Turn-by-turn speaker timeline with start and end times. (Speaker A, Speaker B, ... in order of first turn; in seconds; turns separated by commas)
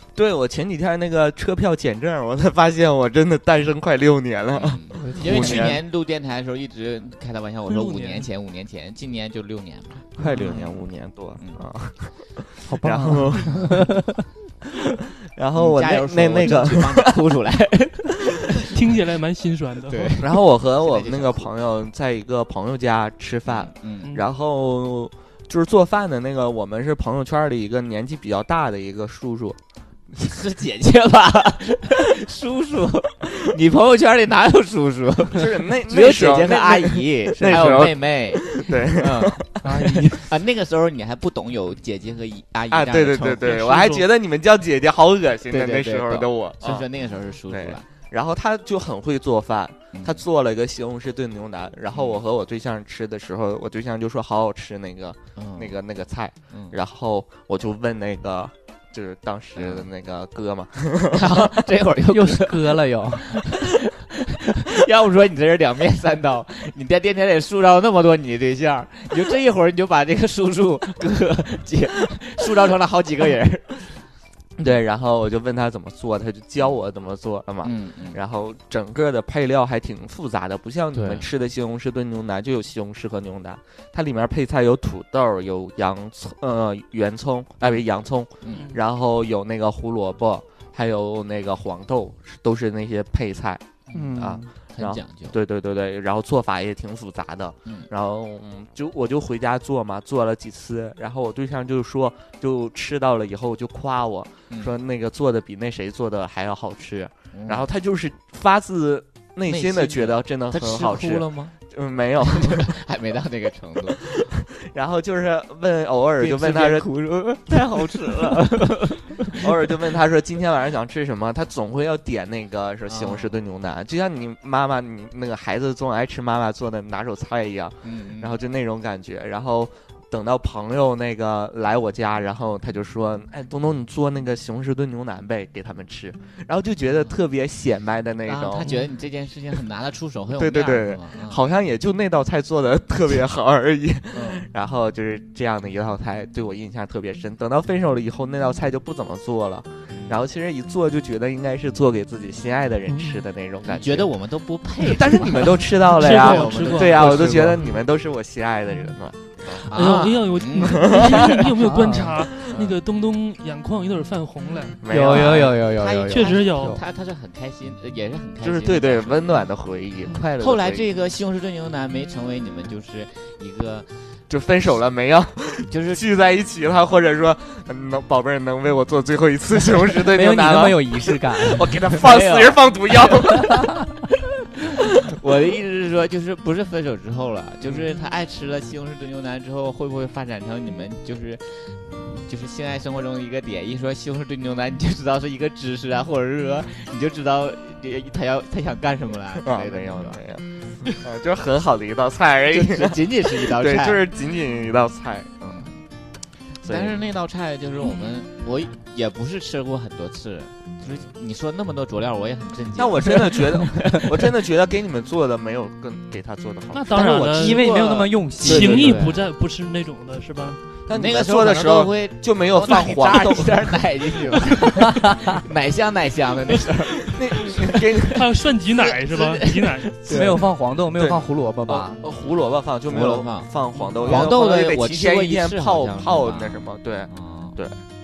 Speaker A: 0.1-5.8, Speaker B: 4.5-10.7, Speaker C: 5.0-5.8, Speaker D: 7.7-8.3, Speaker A: 10.2-13.6, Speaker B: 11.4-11.6, Speaker C: 12.7-14.1, Speaker B: 13.4-13.7, Speaker A: 15.3-17.1, Speaker B: 15.5-18.3, Speaker D: 18.7-20.2, Speaker B: 19.9-21.5, Speaker A: 20.2-29.6, Speaker B: 23.5-24.1, Speaker B: 30.2-39.4, Speaker A: 35.3-39.8, Speaker C: 37.4-37.9, Speaker C: 39.6-40.2, Speaker B: 40.1-43.5, Speaker A: 42.7-46.8, Speaker D: 43.4-44.0, Speaker B: 45.5-47.9, Speaker A: 47.5-61.4, Speaker B: 49.9-50.2, Speaker B: 51.9-52.2, Speaker B: 55.4-55.8, Speaker B: 56.5-56.8, Speaker B: 59.5-59.9, Speaker B: 61.1-63.7, Speaker C: 62.1-63.5, Speaker B: 64.5-74.0, Speaker A: 74.6-93.6, Speaker B: 77.6-78.2, Speaker B: 80.9-81.3, Speaker B: 88.4-88.7, Speaker D: 88.5-88.8, Speaker B: 93.9-95.4, Speaker C: 93.9-94.5, Speaker A: 94.2-112.7, Speaker B: 107.3-107.7, Speaker B: 109.5-111.5, Speaker B: 112.2-114.2, Speaker A: 113.9-116.9, Speaker B: 116.2-119.5, Speaker A: 119.3-138.7, Speaker B: 122.9-123.4, Speaker B: 127.8-128.4, Speaker B: 138.2-141.4, Speaker A: 140.3-154.1, Speaker B: 144.1-144.4, Speaker B: 149.9-150.2, Speaker B: 153.7-157.6, Speaker A: 154.8-159.6, Speaker D: 156.0-157.8, Speaker B: 159.6-161.4, Speaker D: 159.7-164.8, Speaker A: 160.7-161.1, Speaker C: 161.6-162.2, Speaker A: 164.8-165.6, Speaker C: 164.9-166.8, Speaker B: 165.1-169.4, Speaker D: 166.1-166.8, Speaker A: 168.4-170.9, Speaker B: 170.4-174.0, Speaker A: 174.3-183.7, Speaker B: 175.7-176.0, Speaker C: 180.0-181.9, Speaker B: 182.0-182.7, Speaker B: 185.1-200.2, Speaker A: 199.4-205.7, Speaker B: 202.5-204.1, Speaker B: 205.4-205.8, Speaker A: 206.6-207.0, Speaker B: 206.6-214.1, Speaker A: 212.8-217.6, Speaker D: 216.7-220.6, Speaker C: 217.3-219.0, Speaker B: 217.4-219.2, Speaker A: 218.4-218.9, Speaker A: 220.9-223.8, Speaker B: 220.9-227.7, Speaker A: 227.1-228.2, Speaker D: 228.1-230.0, Speaker B: 229.1-230.2, Speaker C: 230.1-232.0, Speaker A: 230.1-237.8, Speaker B: 232.9-233.5, Speaker B: 234.0-237.6